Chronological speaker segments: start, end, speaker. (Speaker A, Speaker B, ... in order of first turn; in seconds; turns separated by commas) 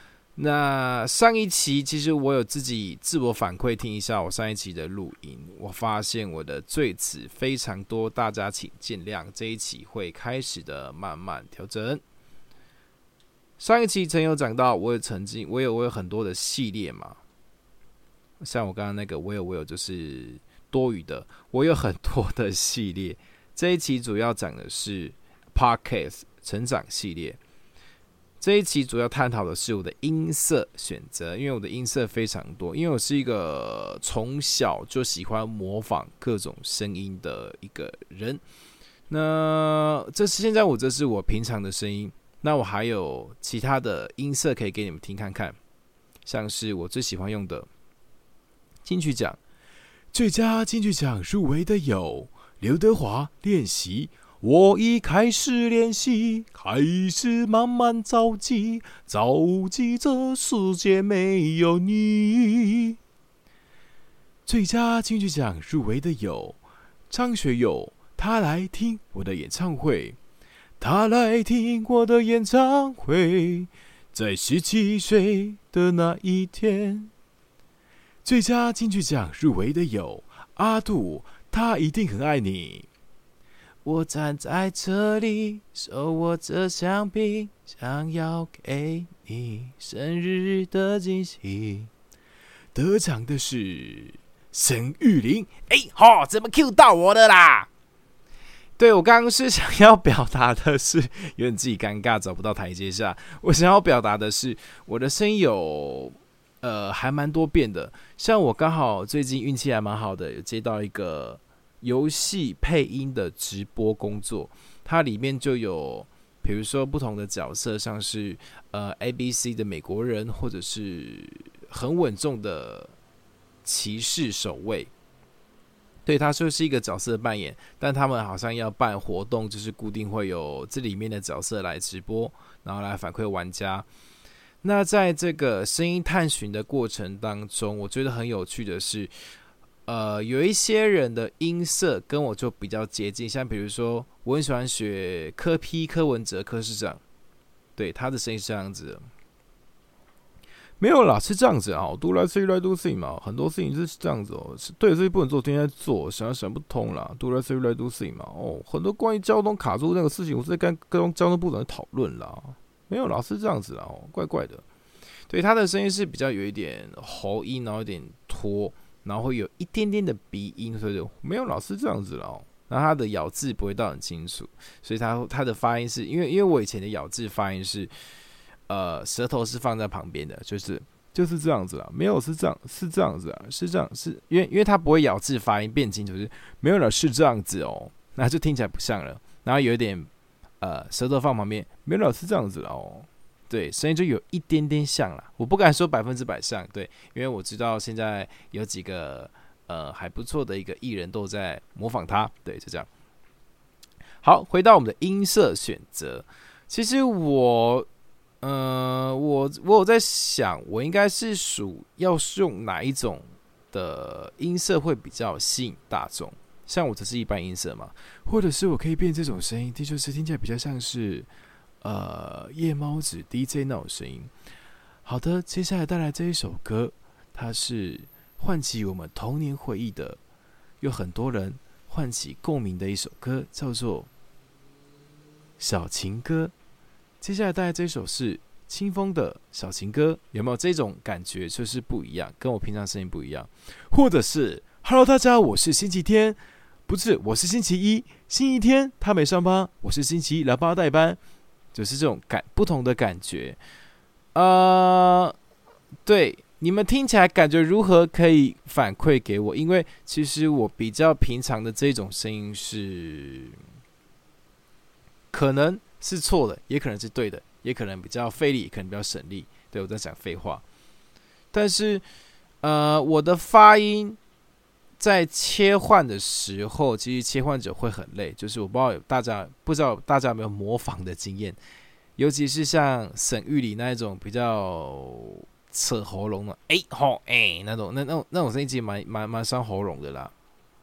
Speaker A: 0.3-12.0, Speaker A: 13.6-17.2, Speaker A: 18.4-27.4, Speaker A: 28.4-38.4, Speaker A: 39.1-45.6, Speaker A: 46.2-47.7, Speaker A: 48.8-49.4, Speaker A: 50.1-63.0, Speaker A: 64.5-70.2, Speaker A: 70.8-77.1, Speaker A: 78.2-82.9, Speaker A: 83.8-91.9, Speaker A: 92.7-97.7, Speaker A: 98.8-123.0, Speaker A: 123.6-124.9, Speaker A: 126.0-133.9, Speaker A: 134.6-139.1, Speaker A: 139.9-147.0, Speaker A: 147.8-149.1, Speaker A: 150.8-164.6, Speaker A: 165.3-177.9, Speaker A: 178.7-190.1, Speaker A: 190.6-202.9, Speaker A: 204.2-207.9, Speaker A: 208.4-221.3, Speaker A: 221.8-224.3, Speaker A: 225.0-230.2, Speaker A: 230.8-234.1, Speaker A: 235.6-236.5, Speaker A: 237.2-251.2, Speaker A: 251.7-253.6, Speaker A: 254.3-255.3, Speaker A: 256.1-263.6, Speaker A: 265.3-270.6, Speaker A: 271.5-272.0, Speaker A: 272.6-274.2, Speaker A: 275.0-281.6, Speaker A: 282.2-290.3